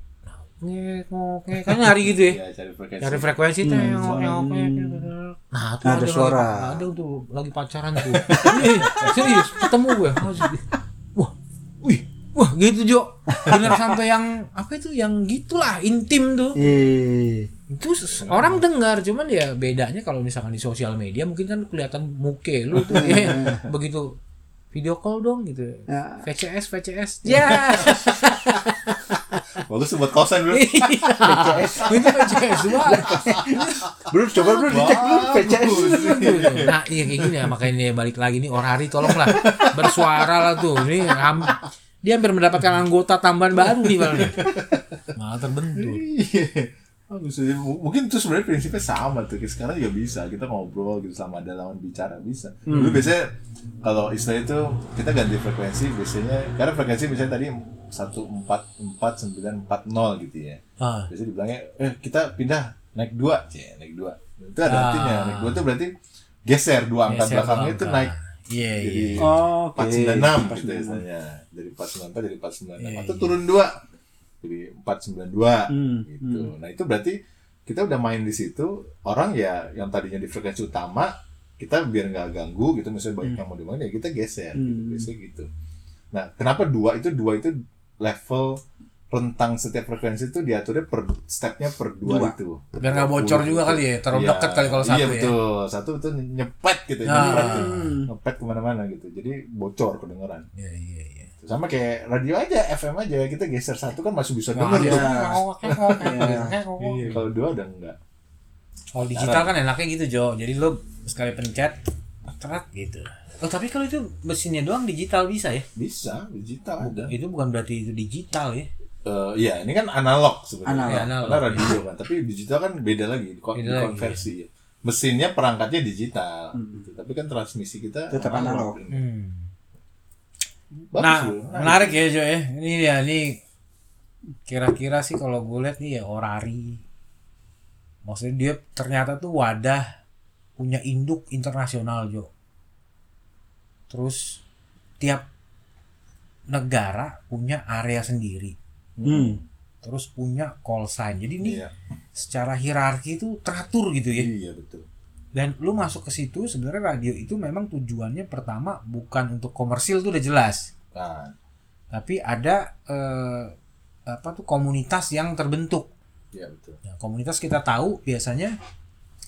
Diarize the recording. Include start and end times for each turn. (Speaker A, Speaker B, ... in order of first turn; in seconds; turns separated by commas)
Speaker A: 0.3-2.4, Speaker B: 2.0-4.3, Speaker A: 3.0-16.6, Speaker C: 3.6-5.1, Speaker C: 5.8-6.8, Speaker C: 8.2-9.3, Speaker B: 8.3-9.3, Speaker C: 13.3-13.8, Speaker C: 16.6-17.5, Speaker A: 17.7-24.2, Speaker B: 18.3-18.5, Speaker C: 22.8-23.6, Speaker A: 24.7-29.4, Speaker C: 25.9-26.3, Speaker C: 27.2-28.6, Speaker B: 29.6-30.9, Speaker A: 30.5-33.3, Speaker C: 31.2-36.7, Speaker B: 32.9-33.9, Speaker B: 34.5-37.3, Speaker A: 34.8-35.0, Speaker A: 35.5-44.5, Speaker B: 39.1-40.6, Speaker B: 44.0-45.0, Speaker A: 45.1-46.0, Speaker B: 45.8-65.9, Speaker C: 52.7-53.1, Speaker A: 60.8-61.1, Speaker A: 64.7-65.6, Speaker B: 66.5-68.1, Speaker A: 67.1-69.3, Speaker B: 68.8-73.8, Speaker C: 69.2-71.0, Speaker A: 72.8-73.3, Speaker B: 74.4-85.5, Speaker C: 75.7-76.5, Speaker C: 84.5-85.1, Speaker B: 86.1-100.5, Speaker C: 92.1-92.3, Speaker A: 92.8-95.3, Speaker A: 97.1-97.9, Speaker C: 97.1-98.1, Speaker A: 100.6-101.3, Speaker B: 101.4-108.0, Speaker A: 104.5-107.2, Speaker C: 104.7-105.4, Speaker C: 106.0-106.5, Speaker A: 108.9-111.8, Speaker B: 109.1-109.5, Speaker A: 112.4-115.7, Speaker B: 115.8-117.1, Speaker A: 116.8-118.7, Speaker B: 119.0-129.1, Speaker C: 120.7-121.1, Speaker A: 120.8-121.8, Speaker A: 123.5-124.3, Speaker C: 126.6-126.8, Speaker C: 128.1-128.8, Speaker A: 128.9-129.5, Speaker B: 130.9-132.1, Speaker A: 131.0-133.4, Speaker A: 134.5-136.8, Speaker A: 138.1-139.9, Speaker A: 140.6-142.3, Speaker A: 143.9-144.4, Speaker A: 145.0-145.2, Speaker A: 146.5-148.6, Speaker B: 149.0-149.4, Speaker C: 149.1-149.4, Speaker A: 149.8-151.6, Speaker B: 151.4-151.7, Speaker A: 152.2-154.3, Speaker B: 154.2-154.9, Speaker A: 155.3-160.7, Speaker B: 160.9-161.3, Speaker A: 161.9-163.5, Speaker A: 164.1-165.9, Speaker B: 166.3-166.8, Speaker A: 166.9-168.6